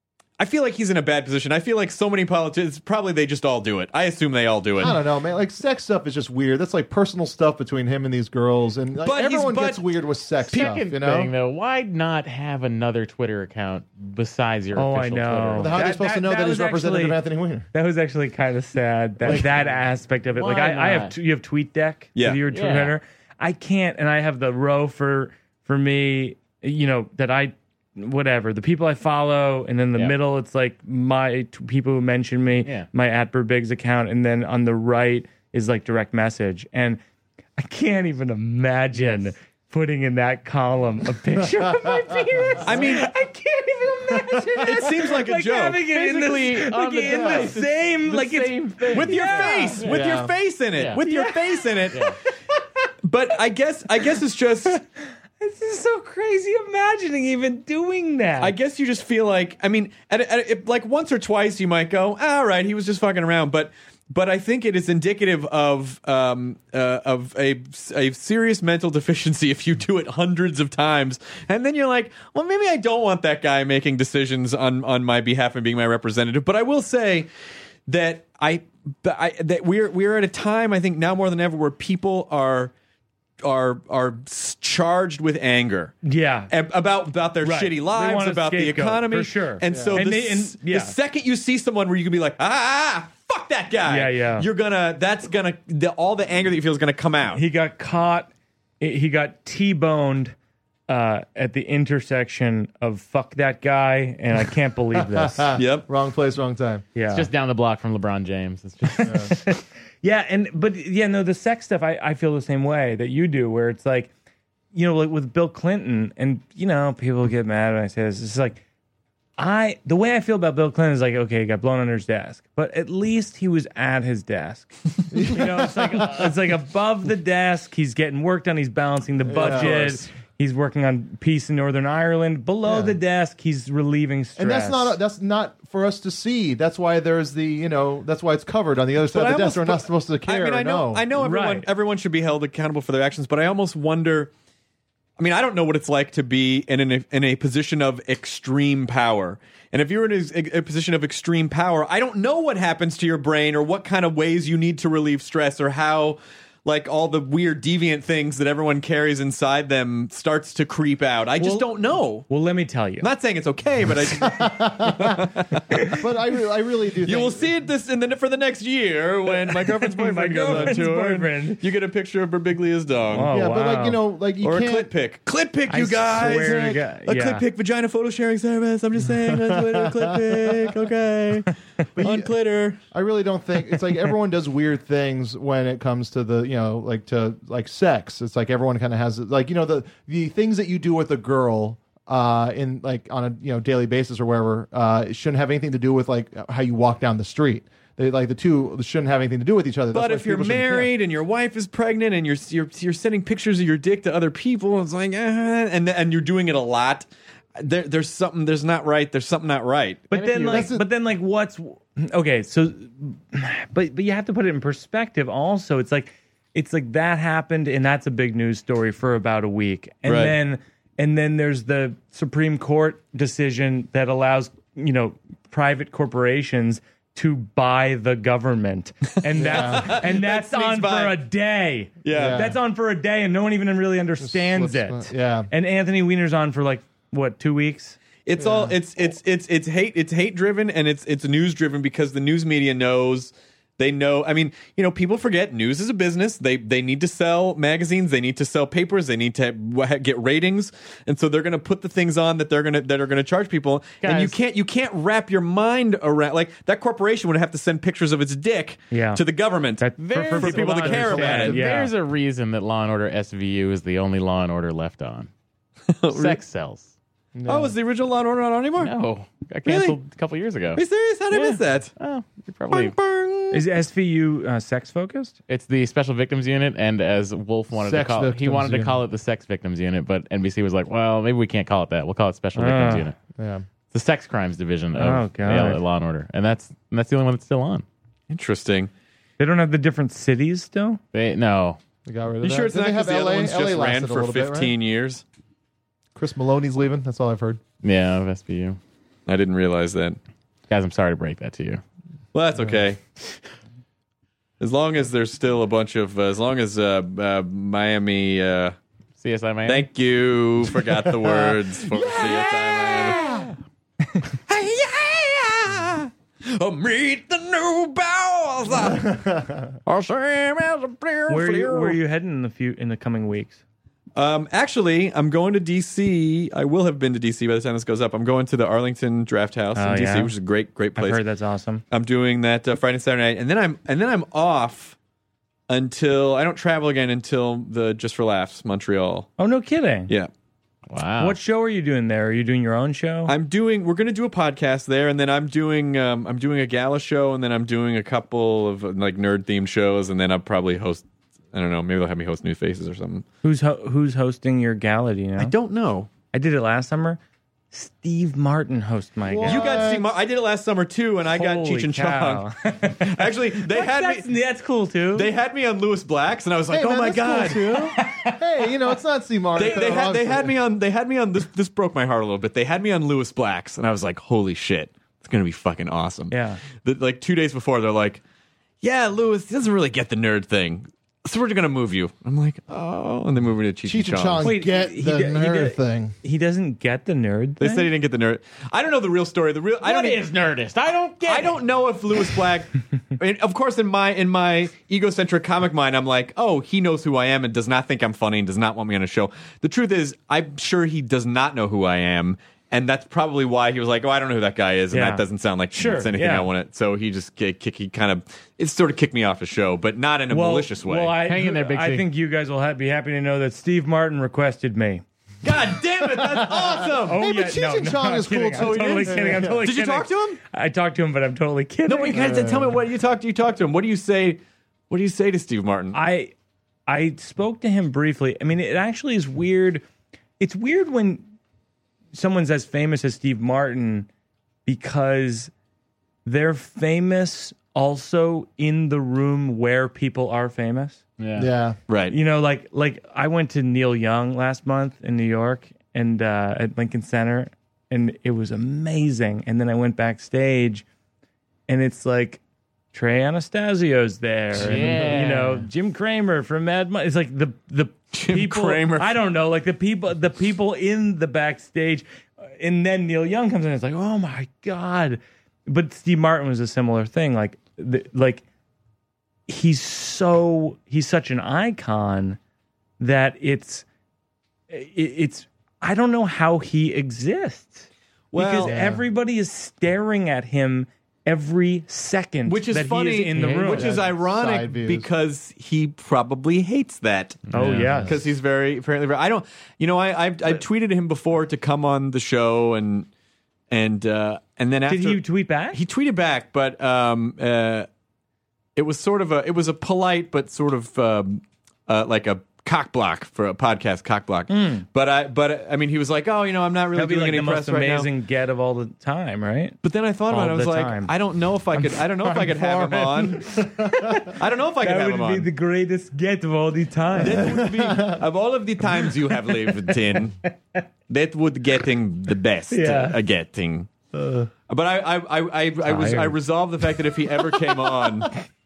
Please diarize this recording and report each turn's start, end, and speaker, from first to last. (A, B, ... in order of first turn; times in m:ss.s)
0:00.4-0:05.0 A
0:04.8-0:11.3 B
0:09.0-0:09.8 A
0:10.4-0:15.9 C
0:10.5-0:10.8 A
0:14.7-0:17.2 D
0:15.6-0:17.7 B
0:17.7-0:37.0 D
0:19.2-0:19.8 C
0:20.3-0:21.1 C
0:22.2-0:22.4 A
0:22.5-0:23.0 C
0:37.6-0:49.8 D
0:41.6-0:42.0 B
0:42.6-0:43.1 A
0:44.6-0:45.8 A
0:45.8-0:50.0 C
0:48.9-0:52.1 A
0:49.8-0:50.3 B
0:51.0-0:52.6 D
0:53.0-0:54.8 A
0:54.7-0:58.6 D
0:58.4-1:17.3 A
1:17.9-1:22.7 A
1:23.4-1:26.0 A
1:26.0-1:26.5 D
1:26.5-1:37.4 A
1:27.4-1:30.9 D
1:29.6-1:30.0 B
1:33.9-1:34.5 D
1:37.3-1:40.3 D
1:40.9-1:45.5 D
1:44.9-1:46.9 B
1:45.6-1:45.9 A
1:46.9-1:47.3 D
1:47.1-1:49.3 C
1:48.8-1:54.1 D
1:49.0-1:49.3 B
1:54.7-1:58.6 D
1:59.4-2:15.0 D
2:05.1-2:06.0 B
2:09.2-2:10.0 B
2:12.6-2:13.0 B
2:14.4-2:21.0 B
2:19.1-2:24.3 A
2:21.1-2:21.7 D
2:25.2-2:42.3 A
2:41.4-2:43.1 D
2:43.0-2:45.6 A
2:44.1-2:45.3 B
2:45.7-2:46.0 D
2:45.9-2:47.5 B
2:47.0-2:53.3 A
2:49.6-2:51.6 D
2:53.1-2:54.0 D
2:53.3-2:54.9 B
2:54.4-3:02.8 A
2:55.7-2:57.4 D
2:59.4-3:00.2 B
3:02.0-3:02.3 B
3:02.9-3:20.9 B
3:19.9-3:30.6 A
3:30.1-3:58.0 D
3:30.5-3:30.8 B
3:40.0-3:40.3 A
3:49.3-3:51.2 A
3:49.4-3:50.0 B
3:52.0-3:52.5 A
3:52.1-3:52.6 B
3:54.2-3:55.5 B
3:58.2-4:21.6 A
3:58.4-3:58.7 B
4:14.0-4:14.4 C
4:18.9-4:19.2 D
4:19.8-4:21.9 D
4:20.0-4:25.3 C
4:20.8-4:21.7 B
4:26.0-4:26.4 A
4:26.1-4:26.9 C
4:27.3-4:27.7 B
4:27.5-4:28.9 A
4:28.8-4:32.9 C
4:29.6-4:30.0 A
4:30.7-4:31.9 A
4:32.7-4:33.6 A
4:33.5-4:35.3 D
4:35.5-4:43.1 C
4:37.7-4:39.0 B
4:42.6-4:43.1 D
4:43.4-4:43.6 B
4:43.9-4:47.8 C
4:44.9-4:45.8 D
4:48.3-4:48.9 A
4:49.4-4:51.0 D
4:51.1-4:51.8 C
4:52.0-4:54.7 B
4:52.4-4:55.2 A
4:56.1-4:57.6 B
4:57.8-4:58.8 C
4:59.3-5:00.2 A
5:00.7-5:01.8 C
5:02.3-5:03.0 A
5:04.6-5:08.8 A
5:09.2-5:09.9 C
5:09.6-5:13.2 A
5:11.2-5:11.5 B
5:12.9-5:13.3 C
5:14.5-5:19.1 A
5:18.9-5:19.7 B
5:19.9-5:22.0 A
5:21.3-5:23.6 D
5:24.2-5:31.2 A
5:29.8-5:30.3 D
5:31.0-5:31.8 D
5:31.9-5:35.0 A
5:35.7-5:39.3 A
5:39.4-5:40.1 D
5:40.9-5:41.4 C
5:41.2-5:43.3 D
5:43.3-5:53.2 A
5:53.4-5:55.5 D
5:55.4-5:56.1 A
5:56.3-5:57.2 D
5:57.7-5:59.7 D
5:59.2-6:00.1 B
5:59.4-6:04.3 A
6:01.3-6:05.3 D
6:05.1-6:07.9 A
6:06.7-6:10.6 B
6:07.9-6:08.4 D
6:09.6-6:18.2 A
6:16.3-6:16.6 D
6:18.8-6:24.5 A
6:23.9-6:26.1 B
6:24.4-6:27.9 D
6:27.6-6:30.2 A
6:29.8-6:31.6 C
6:31.2-6:51.2 A
6:44.9-6:46.5 D
6:50.3-6:55.0 D
6:51.2-6:52.1 C
6:55.4-6:57.2 A
6:56.2-6:59.6 B
6:57.1-7:02.5 D
6:58.6-7:00.4 A
7:01.9-7:06.0 A
7:02.1-7:02.7 B
7:05.9-7:06.3 D
7:06.9-7:09.8 D
7:10.4-7:11.2 D
7:12.1-7:14.1 D
7:14.6-7:15.5 D
7:16.2-7:21.0 D
7:21.2-7:21.5 C
7:21.4-7:21.8 B
7:21.9-7:22.2 A
7:22.1-7:30.8 D
7:31.7-7:32.4 D
7:32.9-7:48.4 D
7:34.5-7:35.6 C
7:38.1-7:39.1 A
7:49.5-7:52.4 D
7:53.0-7:53.8 D
7:54.7-8:03.9 D
7:58.3-7:58.7 A
7:58.6-7:59.0 B
8:02.5-8:07.5 A
8:03.3-8:03.8 C
8:03.7-8:05.1 B
8:07.5-8:08.1 C
8:07.5-8:08.2 D
8:08.0-8:13.1 A
8:13.7-8:17.9 A
8:14.9-8:15.8 D
8:18.8-8:28.1 A
8:24.5-8:24.9 D
8:26.9-8:29.8 D
8:29.8-8:33.6 A
8:30.3-8:31.1 D
8:31.7-8:37.6 D
8:34.2-8:35.5 A
8:37.2-8:40.4 A
8:37.4-8:38.2 B
8:39.5-8:40.8 D
8:41.1-8:43.9 A
8:42.7-8:43.2 D
8:44.2-8:44.4 B
8:44.7-8:48.3 A
8:45.8-8:46.4 D